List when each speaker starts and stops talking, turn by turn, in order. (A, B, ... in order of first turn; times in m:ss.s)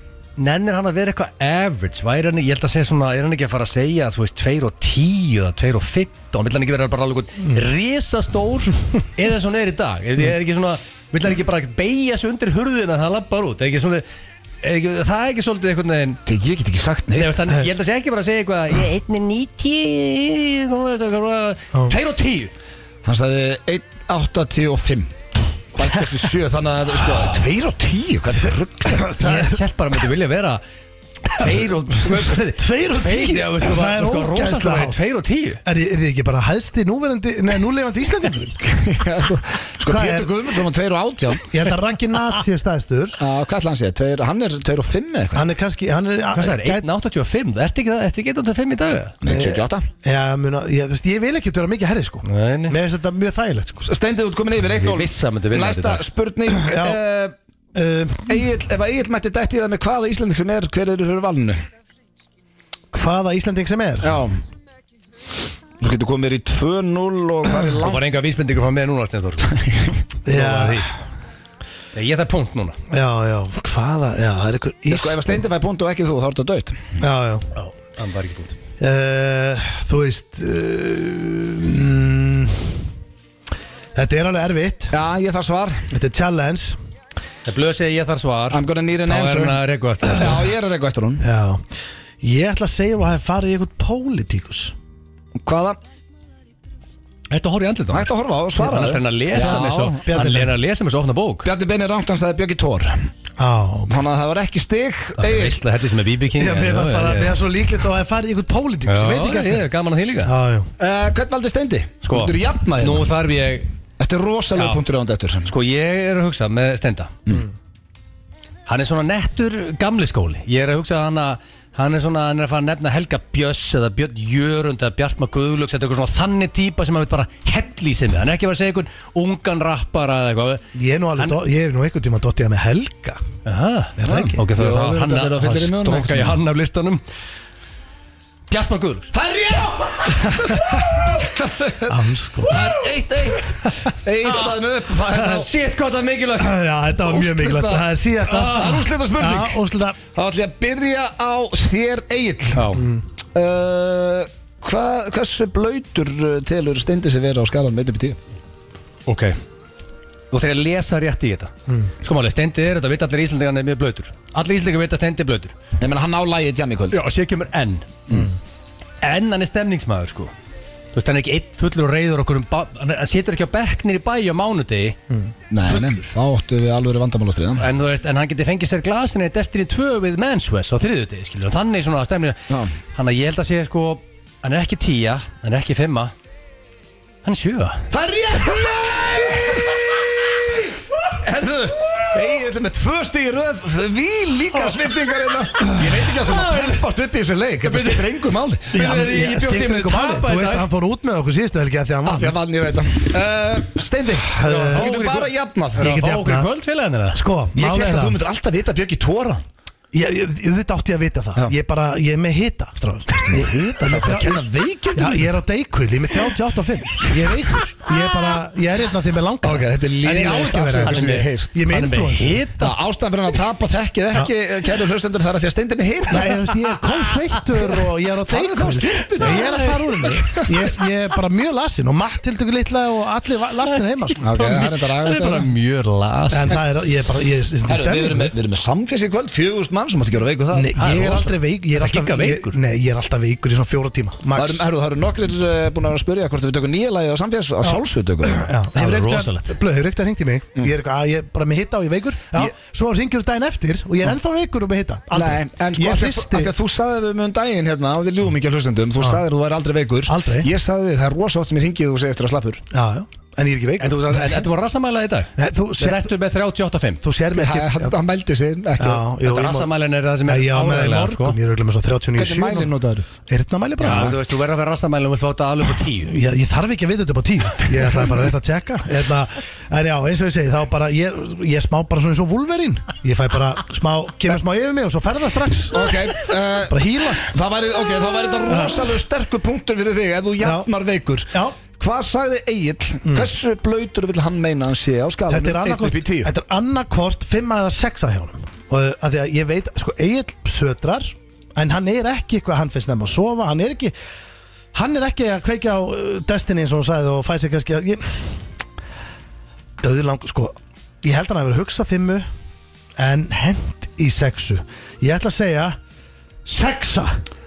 0:00.4-0:14.0 A
0:14.6-0:16.2 A
0:16.2-0:17.4 B
0:17.1-0:22.5 A
0:23.0-0:25.1 B
0:25.7-0:29.2 B
0:28.4-0:29.6 C
0:29.2-0:30.6 A
0:31.3-0:35.6 A
0:32.2-0:35.0 C
0:35.6-0:38.6 C
0:38.6-0:41.5 B
0:39.8-0:40.6 C
0:41.4-0:43.2 C
0:43.2-0:45.4 B
0:45.3-0:46.8 C
0:46.3-0:49.2 A
0:49.2-0:49.8 B
0:49.2-0:53.9 C
0:52.2-0:52.8 A
0:53.8-0:57.3 B
0:54.8-0:56.0 A
0:56.6-0:57.0 C
0:57.7-0:58.4 C
0:58.3-1:01.6 B
1:02.9-1:04.2 C
1:04.0-1:04.4 B
1:05.8-1:08.0 B
1:07.8-1:09.6 A
1:09.7-1:09.9 B
1:10.2-1:10.9 C
1:10.3-1:10.9 A
1:11.9-1:12.8 A
1:12.9-1:15.4 C
1:14.9-1:16.9 B
1:17.0-1:17.5 C
1:17.5-1:18.5 A
1:18.8-1:22.8 C
1:23.9-1:25.0 C
1:24.9-1:25.9 B
1:25.9-1:26.8 C
1:27.4-1:30.4 A
1:28.5-1:31.2 B
1:31.2-1:31.6 C
1:32.2-1:34.7 C
1:35.4-1:35.8 B
1:37.3-1:41.5 A
1:37.9-1:40.0 B
1:39.4-1:40.5 C
1:41.4-1:43.1 B
1:43.4-1:43.9 C
1:43.9-1:45.6 B
1:45.2-1:47.4 A
1:46.3-1:49.7 C
1:48.9-1:50.3 A
1:50.2-1:50.7 C
1:50.8-1:53.1 B
1:52.0-1:53.7 A
1:54.0-1:55.5 B
1:54.5-1:54.8 A
1:55.4-1:57.2 A
1:58.6-2:10.6 A
2:10.7-2:13.2 C
2:13.4-2:17.0 A
2:14.0-2:14.4 C
2:14.1-2:16.4 B
2:18.5-2:19.1 A
2:19.1-2:22.0 B
2:20.5-2:21.1 A
2:21.8-2:22.6 C
2:22.5-2:23.3 A
2:22.5-2:25.5 B
2:23.6-2:23.9 C
2:24.2-2:24.6 A
2:25.1-2:26.5 A
2:25.1-2:25.4 C
2:26.4-2:30.0 C
2:27.0-2:29.6 B
2:30.1-2:32.7 B
2:32.5-2:32.8 A
2:32.7-2:33.0 C
2:33.3-2:38.2 B
2:39.1-2:39.4 A
2:40.3-2:45.6 A
2:45.8-2:47.0 B
2:46.9-2:47.9 A
2:49.0-2:50.3 A
2:50.9-2:55.0 A
2:55.5-2:57.7 B
2:57.6-3:06.1 A
3:07.2-3:07.9 A
3:07.9-3:09.8 B
3:11.1-3:12.2 A
3:11.3-3:18.8 B
3:14.5-3:14.9 A
3:15.7-3:16.8 A
3:17.6-3:18.1 A
3:18.7-3:20.7 A
3:18.7-3:22.4 C
3:22.0-3:25.9 B
3:24.3-3:24.9 C
3:24.4-3:27.2 A
3:25.8-3:26.5 C
3:27.1-3:28.2 C
3:27.6-3:29.4 B
3:29.9-3:42.5 C
3:33.1-3:35.3 B
3:37.0-3:37.6 B
3:39.4-3:41.5 B
3:40.3-3:42.7 A
3:42.6-3:46.4 B
3:46.1-3:54.2 C
3:48.3-3:49.6 B
3:49.2-3:50.3 A
3:50.2-3:50.5 B
3:53.7-3:56.6 A
3:54.2-3:55.5 B
3:56.3-3:58.3 C
3:57.7-4:00.8 B
4:00.5-4:04.6 C
4:00.8-4:02.6 A
4:04.4-4:08.5 B
4:07.6-4:16.5 C
4:08.7-4:09.5 A
4:15.1-4:22.6 B
4:19.0-4:19.2 C
4:20.0-4:20.5 C
4:22.7-4:24.5 C
4:23.8-4:27.0 A
4:25.4-4:26.1 C
4:27.0-4:28.0 C
4:27.3-4:29.0 B
4:28.8-4:29.7 C
4:29.2-4:31.4 A
4:30.2-4:32.7 C
4:32.2-4:33.1 B
4:33.3-4:34.2 C
4:33.8-4:36.1 A
4:36.0-4:47.4 C
4:45.7-4:56.3 B
4:48.5-4:48.9 C
4:50.4-4:50.7 C
4:51.3-4:51.6 C
4:53.0-4:53.3 C
4:55.3-5:03.9 C
5:04.7-5:08.4 C
5:09.8-5:12.2 C
5:13.0-5:15.8 C
5:16.4-5:17.2 C